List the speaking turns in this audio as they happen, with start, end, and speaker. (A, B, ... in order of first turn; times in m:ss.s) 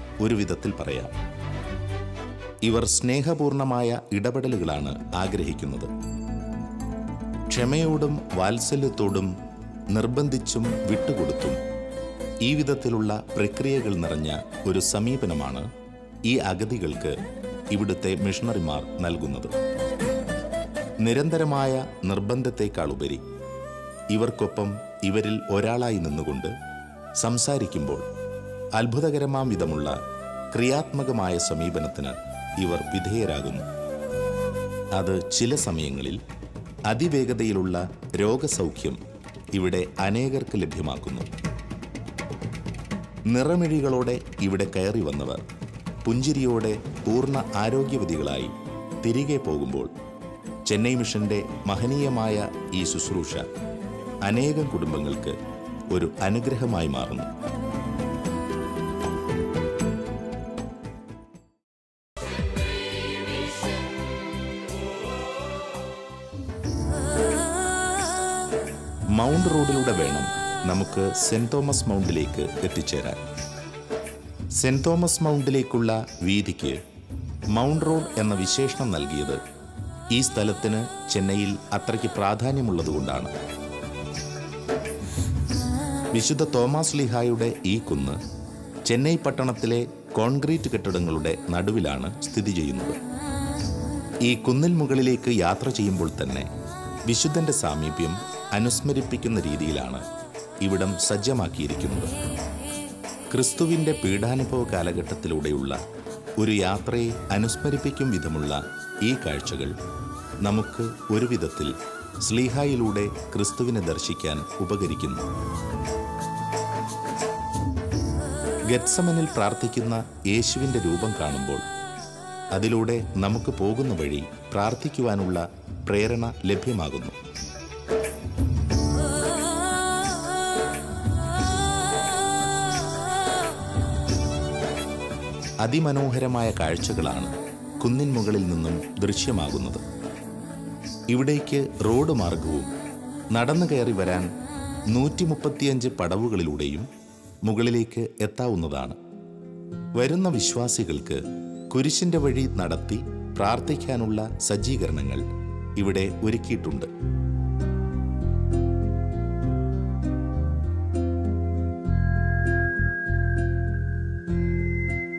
0:00.2-0:01.1 A
0:02.6-0:05.9 A
0:07.5-0:09.3 A
0:09.9-0:11.6 A
0:12.4-0:15.6 A
0:16.3-0:17.2 A
0:17.7-0:19.5 A
0:21.0-0:23.2 A
0:24.1-0:26.5 A
0:27.2-0:28.0 A
0:28.8-0:29.9 A
0:30.5-0:33.7 A
0:34.9-0:36.2 A
0:36.9-0:39.0 A
0:39.5-0:41.3 A
0:43.3-0:45.4 A
0:46.0-0:49.9 A
0:50.7-0:53.4 A
0:54.2-0:55.4 A
0:55.9-0:57.3 A
1:09.1-1:13.2 A
1:14.6-1:16.8 A
1:17.5-1:19.4 A
1:20.1-1:23.3 A
1:26.1-1:28.2 A
1:28.8-1:33.0 A
1:34.2-1:36.5 A
1:37.1-1:40.0 A
1:40.6-1:42.1 A
1:43.3-1:45.8 A
1:46.4-1:49.7 A
1:50.4-1:55.3 A
1:58.7-2:01.6 A
2:02.5-2:07.2 A
2:15.6-2:19.8 A
2:21.1-2:22.7 A
2:23.3-2:24.3 A
2:24.9-2:26.9 A
2:27.4-2:29.0 A
2:30.0-2:35.2 A
2:35.8-2:36.9 A